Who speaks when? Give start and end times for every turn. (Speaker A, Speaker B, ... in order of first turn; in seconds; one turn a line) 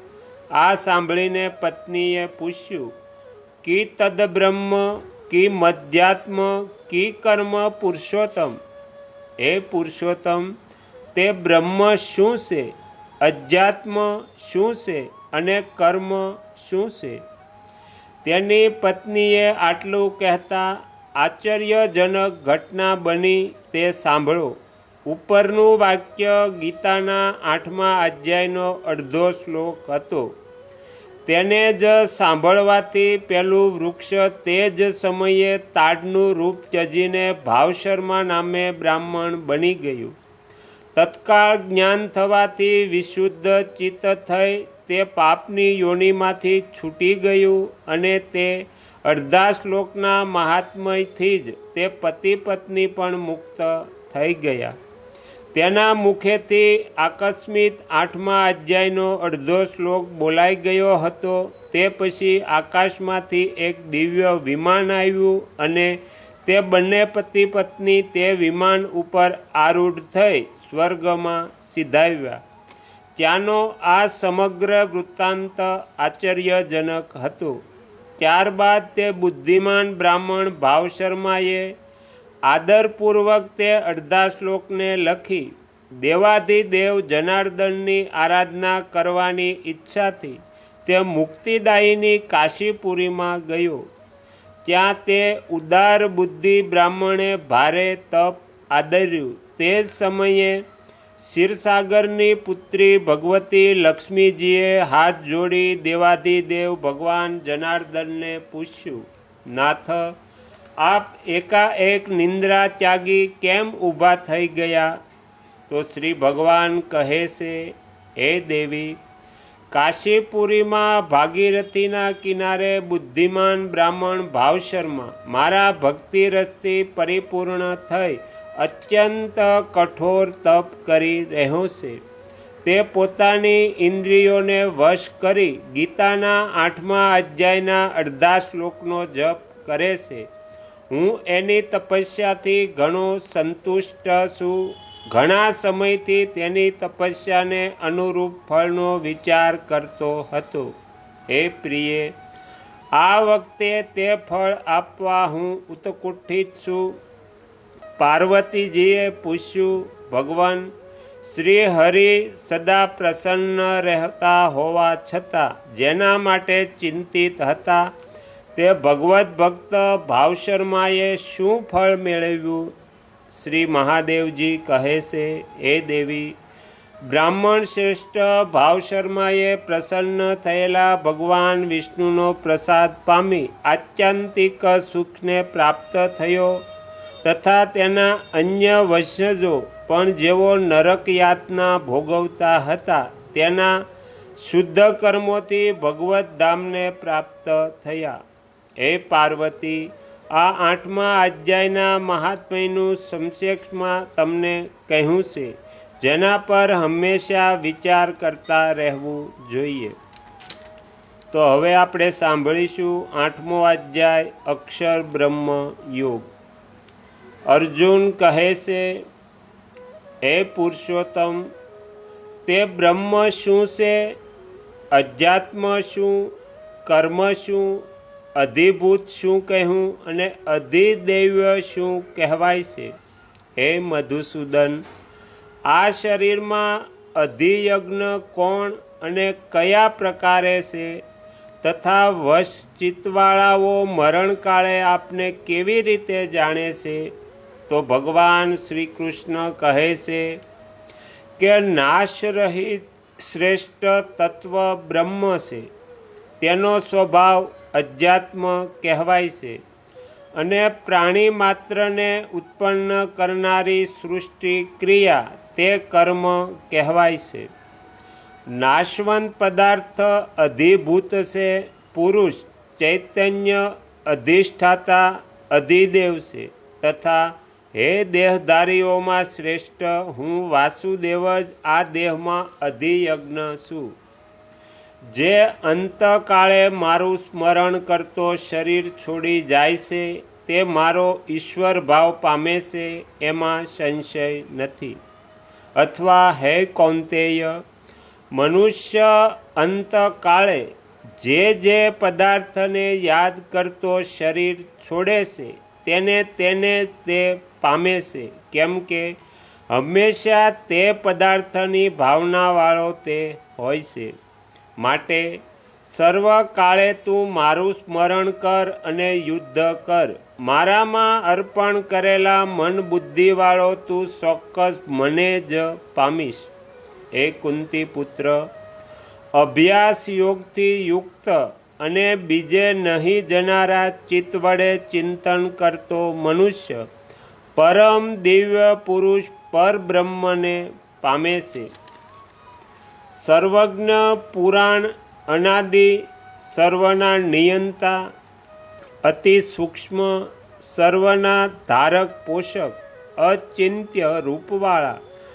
Speaker A: 0.6-2.9
Speaker A: 3.6-8.6
Speaker A: 9.4-10.5
Speaker A: 11.1-17.2
Speaker A: 18.2-30.4
Speaker A: 31.3-40.1
Speaker A: 41.0-54.8
Speaker A: 55.5-72.4
Speaker A: 73.2-77.6
Speaker A: 78.2-81.8
Speaker A: 82.5-93.8
Speaker A: 94.7-100.6
Speaker A: 101.2-110.2
Speaker A: 110.8-115.0
Speaker A: 115.7-119.0
Speaker A: 119.7-132.0
Speaker A: 132.7-140.3
Speaker A: 140.9-150.8
Speaker A: 151.3-152.2
Speaker A: 152.9-157.0
Speaker A: 158.0-160.7
Speaker A: 161.2-167.9
Speaker A: 168.6-172.7
Speaker A: 173.3-176.4
Speaker A: 177.1-186.6
Speaker A: 187.2-193.8
Speaker A: 194.4-198.2
Speaker A: 198.8-210.0
Speaker A: 211.3-216.3
Speaker A: 217.5-219.0
Speaker A: 220.3-221.5
Speaker A: 222.5-224.2
Speaker A: 224.9-226.3
Speaker A: 226.8-232.9
Speaker A: 233.6-234.8
Speaker A: 235.7-241.0
Speaker A: 241.6-247.1
Speaker A: 247.7-250.4
Speaker A: 251.4-255.7
Speaker A: 256.4-259.6
Speaker A: 260.4-267.5
Speaker A: 268.5-284.0
Speaker A: 285.1-295.0
Speaker A: 295.8-297.6
Speaker A: 298.3-309.1
Speaker A: 309.7-314.1
Speaker A: 314.8-326.5
Speaker A: 327.1-328.4
Speaker A: 329.4-336.8
Speaker A: 337.6-341.7
Speaker A: 343.1-348.0
Speaker A: 349.1-355.0